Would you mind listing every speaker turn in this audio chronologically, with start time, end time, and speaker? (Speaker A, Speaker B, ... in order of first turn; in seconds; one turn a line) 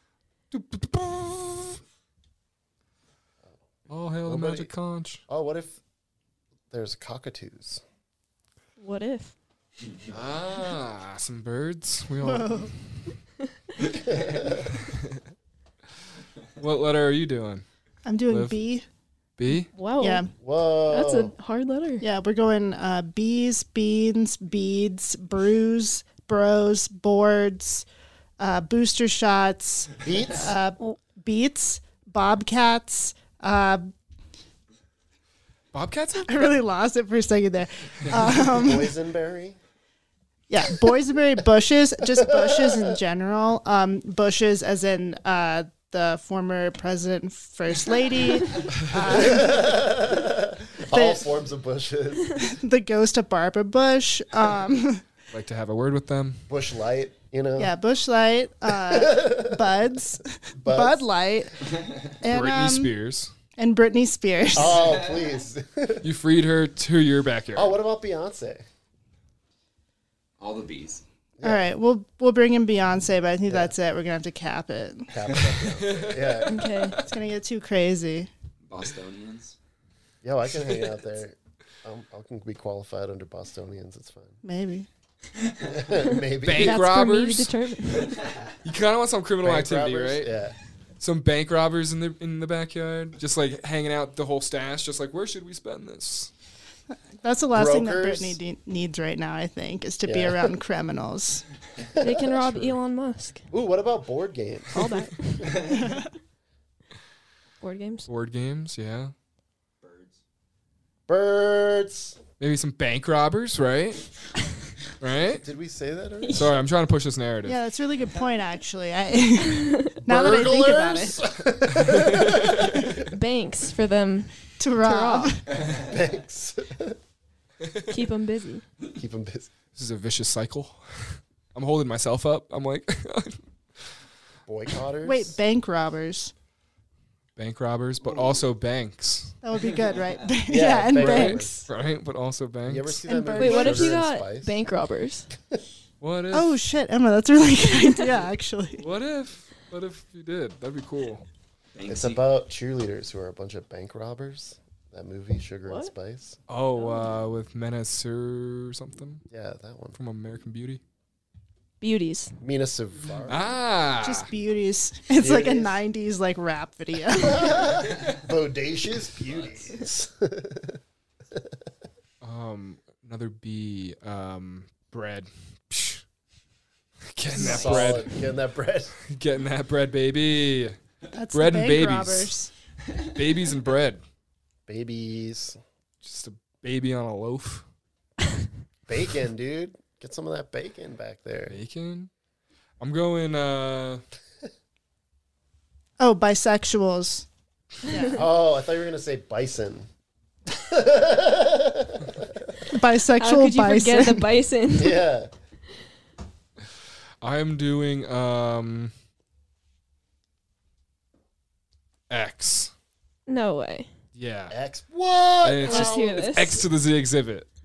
Speaker A: 0.5-1.8
Speaker A: 3.9-5.2
Speaker B: 4.2-4.7
Speaker B: 5.3-5.8
Speaker B: 6.7-7.8
Speaker C: 8.8-9.3
Speaker A: 10.1-12.8
Speaker D: 12.2-12.7
Speaker B: 13.9-14.7
Speaker A: 14.3-15.2
Speaker A: 16.6-17.7
Speaker D: 18.1-18.9
Speaker A: 18.3-18.6
Speaker A: 19.4-19.7
Speaker C: 19.7-20.2
Speaker D: 20.0-20.3
Speaker B: 20.4-21.3
Speaker C: 20.9-22.1
Speaker D: 22.0-27.9
Speaker D: 28.4-33.9
Speaker B: 30.0-30.6
Speaker A: 35.7-36.5
Speaker D: 36.2-39.0
Speaker B: 38.4-39.6
Speaker D: 40.5-49.8
Speaker B: 42.1-43.0
Speaker B: 49.0-52.5
Speaker D: 50.9-51.3
Speaker D: 52.4-55.0
Speaker A: 55.3-56.5
Speaker B: 56.5-57.7
Speaker D: 57.6-62.9
Speaker B: 58.7-59.8
Speaker B: 60.6-61.0
Speaker A: 62.3-63.3
Speaker D: 63.6-64.9
Speaker B: 64.5-66.1
Speaker A: 66.0-67.8
Speaker B: 67.5-68.6
Speaker E: 70.4-71.0
Speaker B: 71.4-71.7
Speaker D: 71.4-75.1
Speaker B: 73.5-73.8
Speaker B: 75.1-76.7
Speaker A: 75.6-77.1
Speaker C: 76.5-77.0
Speaker D: 77.0-78.3
Speaker E: 78.7-79.5
Speaker B: 80.2-84.4
Speaker D: 84.4-84.9
Speaker B: 85.6-86.8
Speaker A: 86.4-87.5
Speaker C: 86.6-88.2
Speaker A: 88.6-90.3
Speaker B: 89.4-90.5
Speaker A: 91.0-96.3
Speaker D: 97.2-101.5
Speaker B: 97.5-98.4
Speaker B: 100.0-100.5
Speaker B: 102.0-102.3
Speaker C: 102.0-103.5
Speaker A: 102.4-102.8
Speaker B: 103.5-104.8
Speaker C: 104.7-105.8
Speaker D: 105.6-106.1
Speaker C: 107.6-108.1
Speaker A: 108.1-109.1
Speaker E: 109.8-110.2
Speaker B: 111.1-112.2
Speaker A: 112.4-114.1
Speaker A: 115.0-115.4
Speaker B: 115.4-116.4
Speaker A: 116.3-117.6
Speaker D: 117.5-121.2
Speaker B: 120.0-123.1
Speaker A: 121.7-122.9
Speaker C: 123.0-125.3
Speaker D: 124.6-125.5
Speaker B: 125.7-127.0
Speaker A: 127.6-127.9
Speaker C: 127.9-128.7
Speaker B: 128.9-129.5
Speaker A: 129.8-133.4
Speaker B: 134.5-135.4
Speaker D: 135.0-136.3
Speaker A: 137.4-139.4
Speaker D: 139.4-141.6
Speaker B: 140.5-141.7
Speaker A: 141.0-143.0
Speaker B: 142.7-144.6
Speaker D: 143.1-144.0
Speaker C: 143.4-145.3
Speaker A: 146.0-146.6
Speaker D: 146.3-148.8
Speaker A: 148.8-151.2
Speaker E: 151.8-152.2
Speaker B: 151.9-156.4
Speaker C: 155.7-155.9
Speaker A: 156.5-159.2
Speaker B: 159.3-160.0
Speaker A: 159.9-160.8
Speaker C: 161.8-162.4
Speaker B: 162.4-163.4
Speaker A: 163.3-164.3
Speaker D: 164.0-167.7
Speaker B: 165.2-165.8
Speaker B: 167.1-170.8
Speaker A: 172.2-176.0
Speaker A: 177.1-178.1
Speaker B: 177.3-178.9
Speaker C: 177.4-177.9
Speaker D: 177.6-177.9
Speaker A: 179.1-180.8
Speaker D: 181.1-182.5
Speaker A: 181.3-182.3
Speaker A: 183.1-184.0
Speaker B: 184.7-185.6
Speaker A: 186.0-187.7
Speaker B: 188.9-191.6
Speaker A: 191.5-192.1
Speaker A: 192.8-194.0
Speaker D: 196.0-197.3
Speaker D: 197.9-198.2
Speaker C: 197.9-198.2
Speaker B: 198.1-199.9
Speaker B: 200.5-202.7
Speaker D: 202.7-204.3
Speaker C: 203.2-205.0
Speaker B: 204.8-205.3
Speaker A: 207.2-208.9
Speaker A: 212.1-212.7
Speaker C: 213.3-213.9
Speaker A: 214.2-214.6
Speaker B: 214.5-216.2
Speaker A: 215.4-217.5
Speaker C: 215.6-216.6